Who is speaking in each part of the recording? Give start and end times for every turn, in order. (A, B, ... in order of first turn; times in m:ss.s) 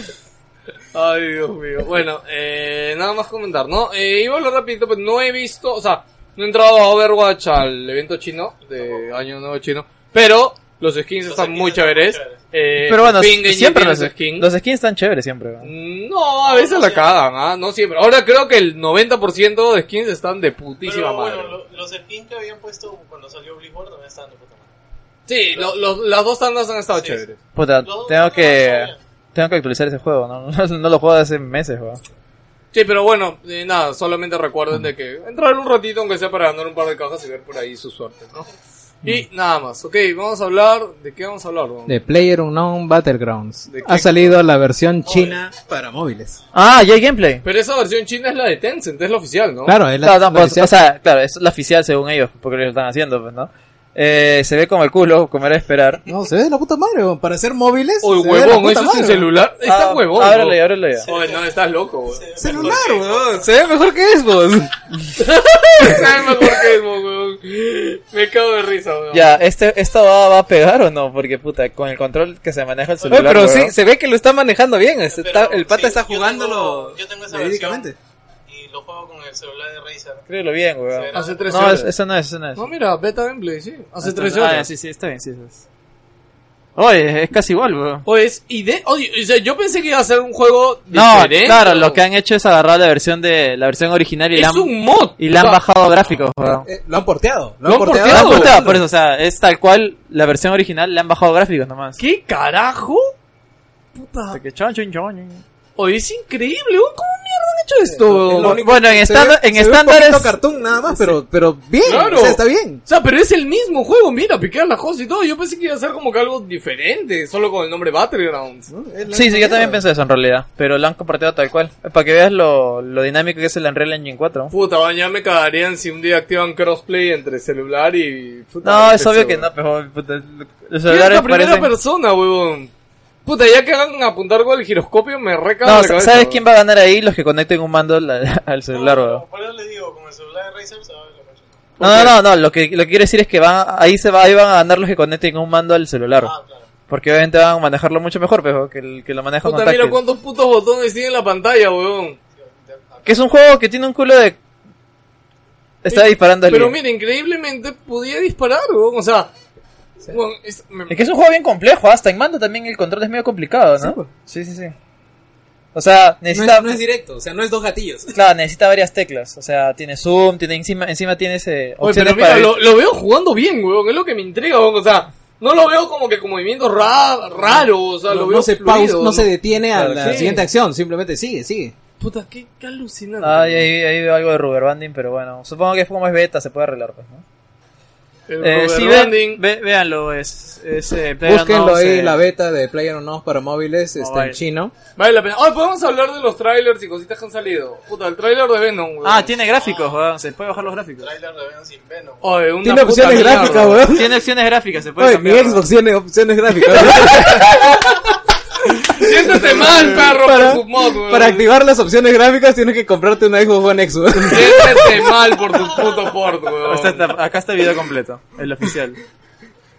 0:00.9-0:14.5 A
0:11.2-0:12.4 B
0:12.9-0:15.7 C
0:15.6-0:21.6 A
0:16.4-0:17.1 B
0:20.8-0:24.7 B
0:25.3-0:27.4 A
0:26.9-0:27.2 B
0:27.6-0:32.0 C
0:27.8-0:29.0 B
0:32.7-0:38.5 A
0:39.0-0:42.0 A
0:41.9-0:46.4 D
0:43.7-0:44.4 A
0:45.1-0:45.4 B
0:46.5-0:47.4 C
0:47.4-0:49.8 A
0:49.7-0:50.7 D
0:50.0-0:56.0 C
0:56.1-0:59.3 D
0:58.0-1:02.9 A
0:59.6-1:01.1 C
1:01.0-1:01.5 B
1:02.1-1:03.5 B
1:02.4-1:04.7 D
1:05.2-1:09.4 A
1:09.1-1:13.8 C
1:13.1-1:18.0 D
1:15.1-1:17.9 B
1:18.5-1:20.2 B
1:20.3-1:22.7 C
1:20.9-1:21.9 B
1:21.1-1:21.9 A
1:22.6-1:24.7 A
1:24.0-1:25.6 C
1:26.8-1:28.1 C
1:28.1-1:32.0 A
1:30.9-1:36.7 C
1:34.3-1:35.6 A
1:36.6-1:38.8 D
1:37.6-1:38.6 A
1:38.0-1:42.0 C
1:42.0-1:43.1 A
1:43.9-1:44.4 A
1:44.3-1:45.4 C
1:45.8-1:48.6 A
1:48.0-1:52.8 D
1:48.4-1:50.4 C
1:51.8-1:58.7 A
1:58.7-1:59.8 D
1:59.1-2:04.5 C
2:04.5-2:09.5 A
2:08.6-2:11.7 C
2:10.9-2:12.7 A
2:13.3-2:16.4 A
2:15.6-2:19.2 C
2:18.7-2:21.8 B
2:21.8-2:22.2 A
2:21.8-2:26.3 C
2:26.2-2:26.7 B
2:26.9-2:30.0 C
2:29.4-2:32.2 A
2:32.4-2:33.2 B
2:33.0-2:34.4 C
2:35.8-2:36.8 C
2:35.9-2:39.3 A
2:40.1-2:41.0 A
2:40.9-2:44.7 C
2:43.8-2:44.1 D
2:45.7-2:46.8 C
2:46.3-2:48.2 D
2:48.1-2:52.6 C
2:51.8-2:59.3 A
2:58.1-3:01.8 D
2:59.7-3:00.4 C
3:00.0-3:00.4 A
3:02.0-3:03.7 A
3:03.2-3:07.2 C
3:08.3-3:09.4 A
3:08.4-3:12.2 C
3:11.2-3:14.7 D
3:14.0-3:14.4 C
3:15.0-3:19.3 A
3:19.0-3:21.1 C
3:21.0-3:22.3 B
3:22.2-3:23.8 A
3:22.6-3:24.2 D
3:23.8-3:25.6 C
3:25.0-3:27.7 D
3:26.7-3:27.6 C
3:28.8-3:29.9 D
3:28.9-3:31.5 A
3:29.5-3:30.6 C
3:31.0-3:35.0 D
3:34.3-3:37.0 A
3:36.6-3:39.0 C